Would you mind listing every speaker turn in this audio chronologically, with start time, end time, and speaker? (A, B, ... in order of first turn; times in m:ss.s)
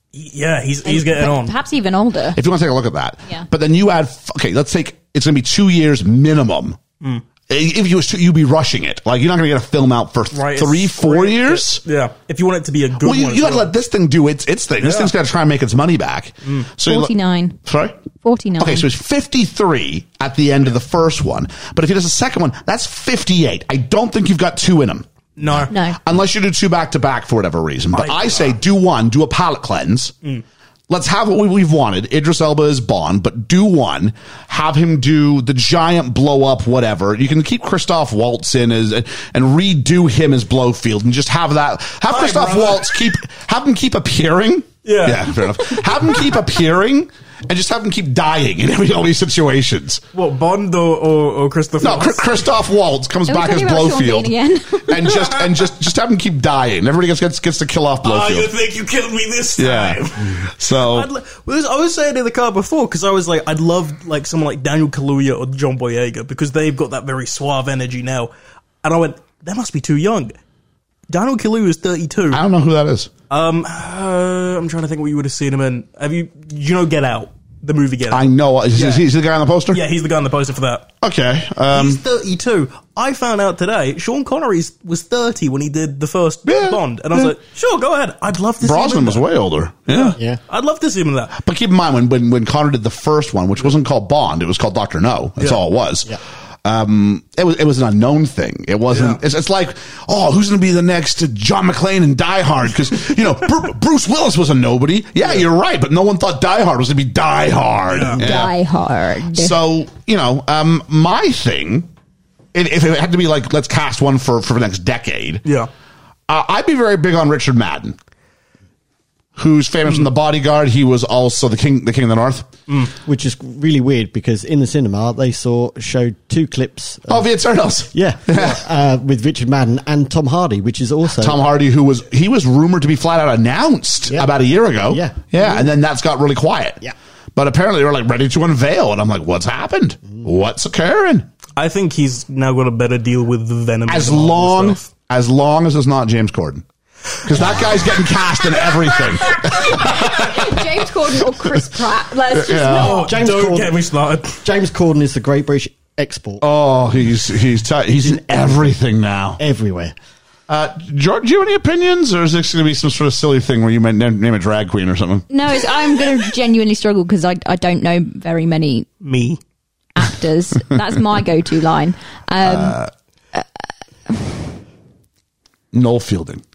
0:00.1-0:01.6 A
0:00.8-0:02.4 B
0:02.4-0:06.8 C
0:07.5-0:11.8 C
0:10.3-0:13.7 A
0:13.0-0:17.1 C
0:14.8-0:15.1 A
0:16.8-0:17.6 B
0:17.6-0:18.0 C
0:18.2-0:18.9 B
0:18.6-0:30.2 C
0:25.4-0:25.7 A
0:25.7-0:26.0 B
0:27.9-0:28.6 A
0:30.9-0:50.0 C
0:42.1-0:42.9 A
0:44.8-0:45.5 A
0:50.1-0:52.5 A
0:51.8-0:58.5 C
0:53.3-0:55.2 B
0:55.1-0:55.7 A
0:58.0-1:08.3 A
0:59.6-1:01.1 C
1:08.8-1:10.4 A
1:11.1-1:12.4 A
1:12.3-1:13.1 C
1:13.3-1:19.1 A
1:18.1-1:19.8 C
1:19.7-1:20.9 A
1:21.0-1:22.0 C
1:21.7-1:29.3 A
1:26.5-1:27.3 C
1:28.6-1:30.2 C
1:29.9-1:31.4 A
1:31.4-1:48.6 C
1:38.9-1:39.2 A
1:45.2-1:45.4 A
1:47.9-1:48.2 A
1:48.2-1:49.6 B
1:49.3-1:51.9 C
1:52.5-1:55.4 C
1:56.3-1:58.0 C
1:59.4-2:02.5 C
2:03.1-2:07.3 D
2:07.1-2:08.6 C
2:07.9-2:11.4 D
2:11.2-2:16.8 C
2:14.8-2:15.7 D
2:17.4-2:21.3 C
2:21.6-2:24.9 A
2:23.9-2:26.6 C
2:27.2-2:30.9 C
2:29.3-2:33.1 B
2:32.3-2:33.0 C
2:32.7-2:34.4 A
2:32.9-2:33.8 D
2:34.4-2:36.4 D
2:36.4-2:39.4 C
2:38.0-2:38.7 D
2:39.4-2:40.0 D
2:40.5-2:45.3 C
2:45.3-2:48.9 B
2:49.0-2:49.4 A
2:50.0-2:52.8 B
2:52.4-2:52.9 C
2:54.1-2:54.4 B
2:55.7-2:56.4 C